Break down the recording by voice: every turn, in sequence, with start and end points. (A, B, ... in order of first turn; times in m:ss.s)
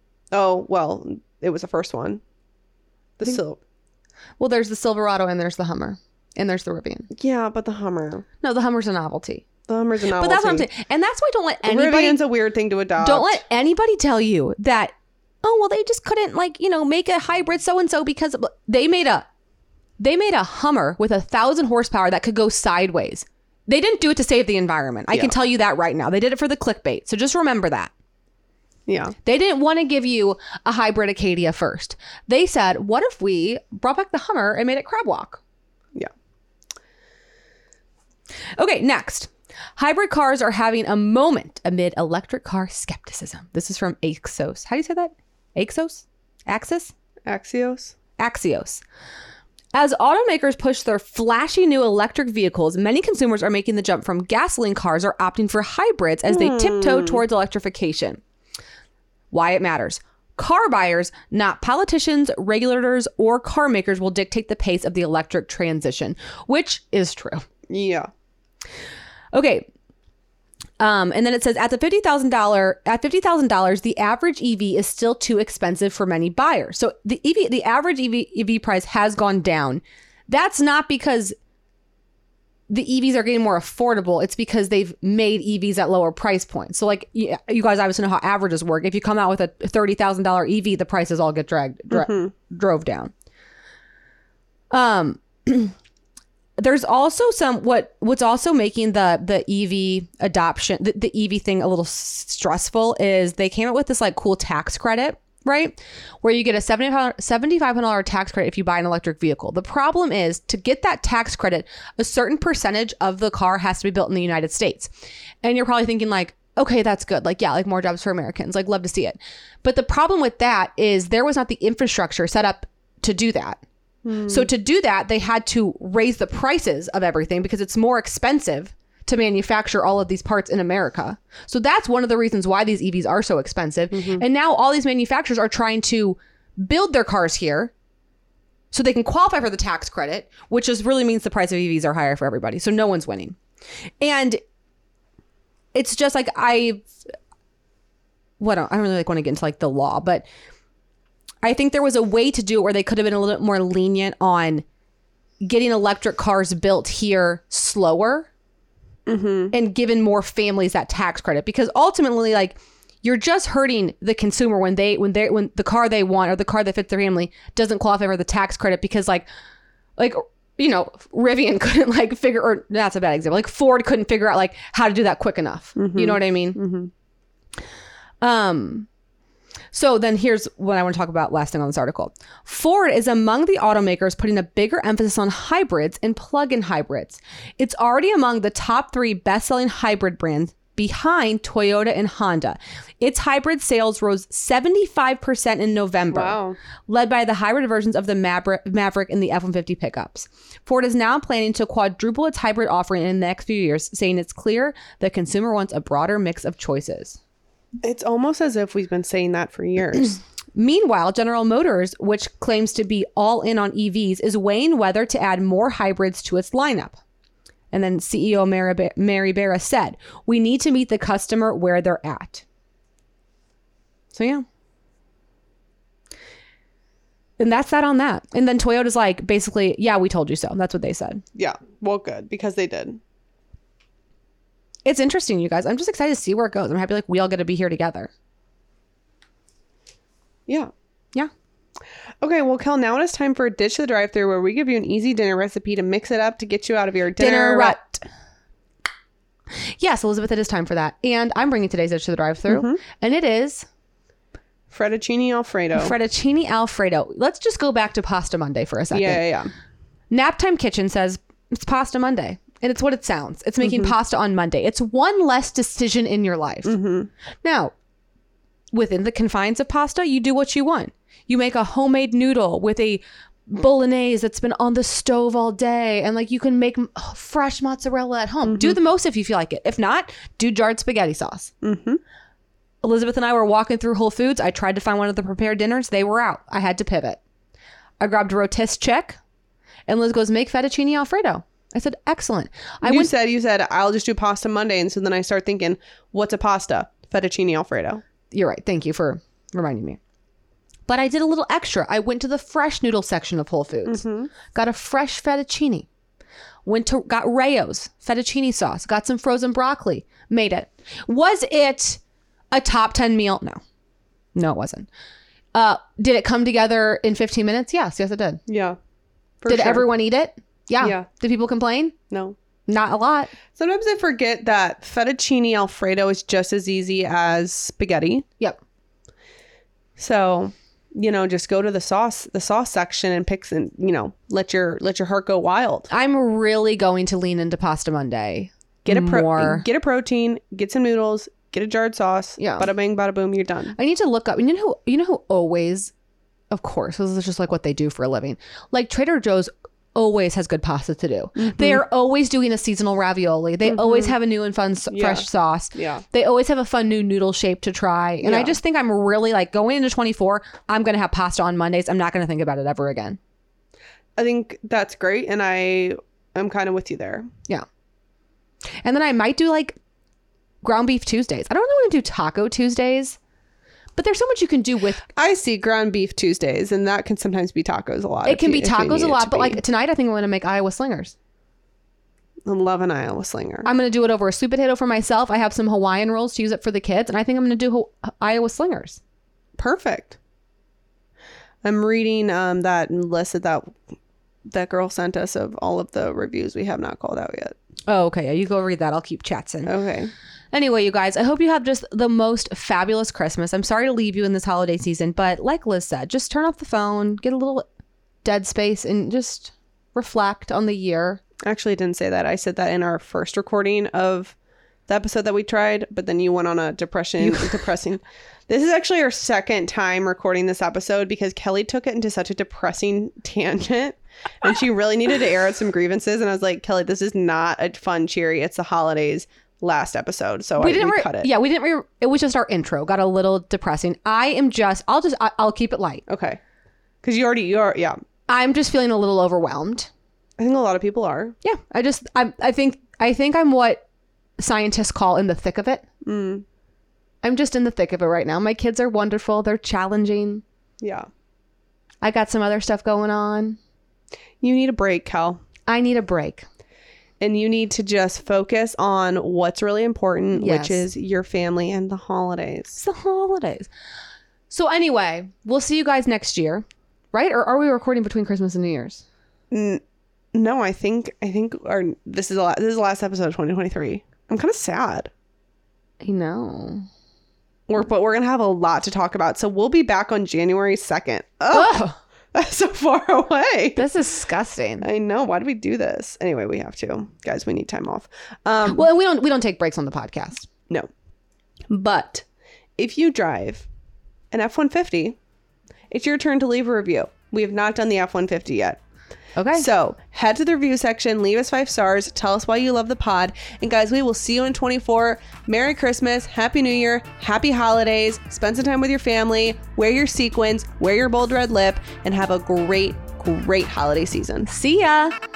0:00.3-0:02.2 A
0:03.2-0:03.6 A
0:04.4-0:07.1 B
0:07.1-0:08.2 A
0:08.4-0:09.4 B
0:09.7-0:10.7 A
0:10.2-0:12.2 B
0:11.6-0:13.4 A
0:13.0-0:14.9 B
0:15.4-0:19.3 B
0:20.0-0:27.9 B
0:28.9-0:29.1 A
0:29.2-0:35.4 B
0:38.6-0:46.9 B
0:47.3-0:47.9 A
0:48.2-0:48.8 B
0:49.7-0:58.2 B
0:56.3-0:57.2 A
0:59.3-1:07.4 B
1:07.7-1:08.1 A
1:09.3-1:09.6 B
1:10.8-1:21.3 B
1:22.7-1:33.1 B
1:31.9-1:32.3 A
1:34.7-1:35.7 B
1:36.6-1:54.9 B
1:55.4-2:03.6 B
2:04.0-2:04.5 A
2:04.3-2:17.7 B
2:13.9-2:14.2 A
2:18.7-2:23.4 B
2:24.0-2:24.4 B
2:25.7-2:26.9 B
2:28.4-2:30.2 B
2:31.4-2:34.6 B
2:35.4-2:38.3 B
2:39.1-2:39.5 A
2:39.5-2:49.2 B
2:50.0-2:56.6 B
2:55.8-2:56.9 A
2:58.2-2:58.9 B
2:59.7-3:27.2 B
3:16.1-3:16.6 A
3:27.8-3:30.2 A
3:30.6-3:37.0 B
3:37.7-3:42.4 B
3:44.1-3:44.4 B
3:47.4-3:51.2 B
3:51.4-3:53.0 A
3:54.8-3:58.1 B
4:02.2-4:07.8 A
4:07.2-4:08.0 B
4:09.8-4:13.6 B
4:12.5-4:12.8 A
4:14.7-4:15.9 A
4:15.7-4:19.2 B
4:18.9-4:19.5 A
4:20.1-4:26.8 B
4:23.6-4:23.9 A
4:26.6-4:27.1 A
4:27.4-4:27.7 B
4:28.7-4:41.5 B
4:38.4-4:38.8 A
4:41.6-4:42.0 A
4:42.8-4:47.2 B
4:48.0-4:49.2 B
4:49.9-4:53.1 B
4:52.8-4:58.0 A
4:58.3-5:00.0 B
5:00.9-5:05.9 B
5:03.9-5:04.3 A
5:06.6-5:12.0 B
5:12.5-5:13.6 B
5:14.3-5:14.9 B
5:15.5-5:18.4 B
5:18.5-5:18.8 A
5:19.4-5:19.8 A
5:19.5-5:22.0 B
5:20.8-5:21.0 A
5:22.1-5:22.4 A
5:22.7-5:23.3 B
5:23.5-5:28.2 A
5:30.0-5:35.9 A
5:35.9-5:39.6 B
5:38.8-5:43.8 A
5:42.4-5:42.7 B
5:43.8-5:45.9 B
5:46.5-6:03.2 B
5:51.4-5:51.8 A
5:53.6-5:54.1 A
5:54.9-5:56.0 A
5:58.2-5:58.6 A
6:04.2-6:07.3 A
6:08.8-6:09.8 B
6:10.6-6:13.2 B
6:14.0-6:15.1 B
6:15.1-6:19.6 A
6:18.2-6:21.1 B
6:22.4-6:23.7 A
6:23.6-6:29.0 B
6:29.6-6:30.2 A
6:31.6-6:33.8 A
6:34.4-6:37.5 A
6:37.9-6:39.7 B
6:39.6-6:40.1 A
6:40.5-6:47.6 B
6:48.2-6:51.2 B
6:51.4-6:54.4 A
6:54.9-7:11.3 A
6:57.2-6:57.6 B
7:10.6-7:16.0 B
7:16.1-7:16.4 A
7:17.0-7:18.0 A
7:18.3-7:19.9 B
7:20.4-7:21.4 A
7:21.4-7:23.8 B
7:24.4-7:25.8 B
7:26.0-7:26.4 A
7:27.2-7:30.4 B
7:30.8-7:31.1 A
7:32.0-7:33.6 B
7:34.4-7:35.4 A
7:35.7-7:36.4 B
7:37.2-7:42.8 A
7:40.4-7:40.8 B
7:42.7-7:43.7 B
7:44.5-7:49.0 B
7:49.5-7:49.8 A
7:50.3-7:55.1 A
7:56.0-7:56.9 B
7:57.7-8:03.9 A
8:01.5-8:02.0 B
8:03.8-8:04.9 B
8:04.8-8:08.9 A
8:08.7-8:10.5 B
8:11.7-8:12.2 B
8:12.8-8:13.7 A
8:14.3-8:15.2 A
8:15.9-8:18.8 A
8:19.4-8:19.6 B
8:19.5-8:34.5 A
8:34.5-8:35.1 B